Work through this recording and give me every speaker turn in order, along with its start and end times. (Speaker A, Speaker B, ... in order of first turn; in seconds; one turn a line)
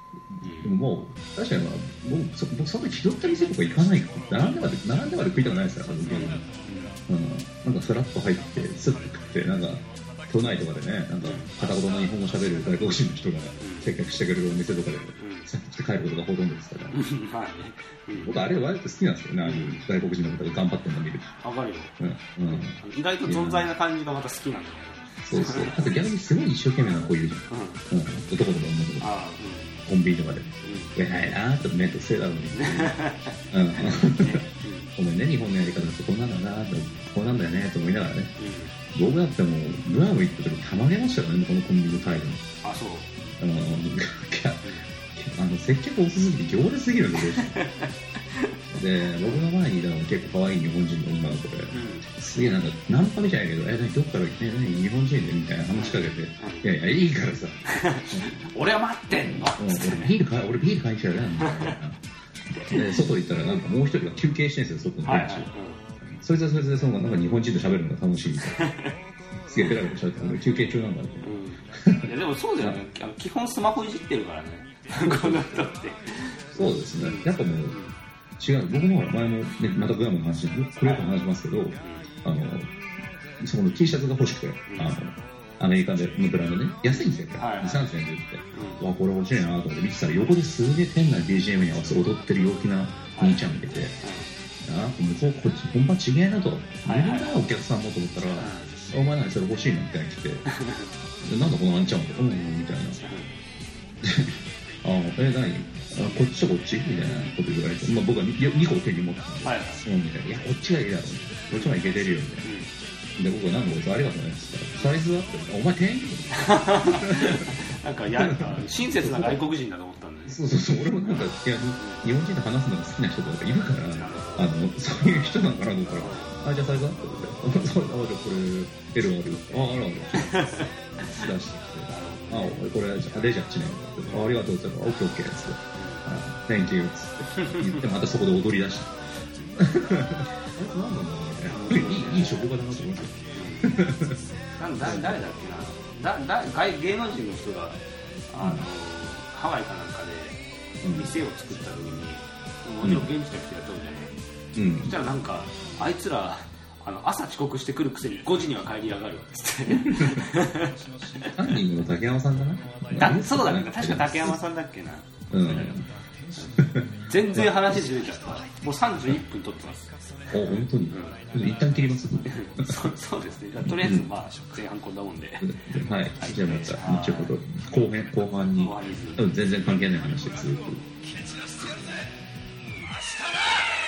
Speaker A: 0.4-6.5
Speaker B: 0.4-0.8
Speaker B: 6.1-7.0
Speaker A: 7.1-17.0
Speaker B: 11.2-11.6
Speaker B: 13.6-13.9
Speaker B: 15.2-15.5
Speaker B: 16.9-18.4
Speaker A: 18.1-21.4
Speaker B: 19.4-19.9
Speaker B: 21.4-21.9
Speaker A: 22.0-23.7
Speaker B: 22.5-26.0
Speaker A: 25.2-29.1
Speaker B: 27.5-27.8
Speaker B: 29.0-29.9
Speaker A: 29.9-33.0
Speaker B: 30.6-31.0
Speaker B: 32.5-34.9
Speaker A: 33.5-34.5
Speaker A: 35.0-38.3
Speaker B: 38.4-38.8
Speaker A: 38.9-42.5
Speaker B: 42.6-43.2
Speaker A: 43.4-47.6
Speaker B: 47.2-48.6
Speaker A: 48.7-58.3
Speaker B: 51.7-52.1
Speaker B: 55.8-56.7
Speaker B: 57.7-60.1
Speaker A: 59.3-62.0
Speaker B: 61.4-61.8
Speaker B: 62.5-63.0
Speaker A: 62.6-68.7
Speaker B: 65.0-65.8
Speaker B: 68.5-69.0
Speaker A: 69.5-72.8
Speaker B: 71.2-78.0
Speaker A: 75.0-75.6
Speaker A: 76.5-77.8
Speaker A: 78.4-82.7
Speaker B: 80.8-81.2
Speaker B: 81.8-82.1
Speaker A: 83.4-94.0
Speaker B: 84.7-84.9
Speaker B: 87.4-87.9
Speaker B: 88.5-88.9
Speaker B: 93.1-93.5
Speaker B: 94.0-94.3
Speaker A: 94.6-100.5
Speaker B: 96.8-97.5
Speaker B: 98.4-98.8
Speaker B: 100.5-100.9
Speaker A: 101.2-103.0
Speaker B: 103.0-103.3
Speaker A: 104.0-112.5
Speaker B: 107.0-107.3
Speaker B: 109.4-109.8
Speaker B: 111.5-111.8
Speaker B: 112.4-112.7
Speaker A: 113.2-117.5
Speaker B: 116.3-122.1
Speaker A: 118.2-119.4
Speaker A: 120.3-138.9
Speaker B: 123.9-124.5
Speaker B: 126.0-126.4
Speaker B: 130.2-131.3
Speaker B: 131.9-132.6
Speaker B: 134.1-134.4
Speaker B: 135.7-136.1
Speaker B: 137.4-137.9
Speaker A: 139.6-144.2
Speaker B: 141.5-142.5
Speaker B: 143.3-143.8
Speaker B: 144.6-154.2
Speaker A: 144.8-145.3
Speaker A: 148.4-148.7
Speaker A: 150.8-151.2
Speaker A: 152.8-153.1
Speaker A: 154.6-154.9
Speaker B: 154.8-161.6
Speaker A: 159.7-160.3
Speaker A: 161.3-164.4
Speaker B: 162.9-169.9
Speaker A: 165.3-165.8
Speaker A: 166.6-168.0
Speaker A: 170.3-172.7
Speaker B: 170.5-171.2
Speaker B: 172.3-175.5
Speaker A: 173.7-174.1
Speaker A: 175.4-180.8
Speaker B: 176.2-177.3
Speaker B: 178.6-179.3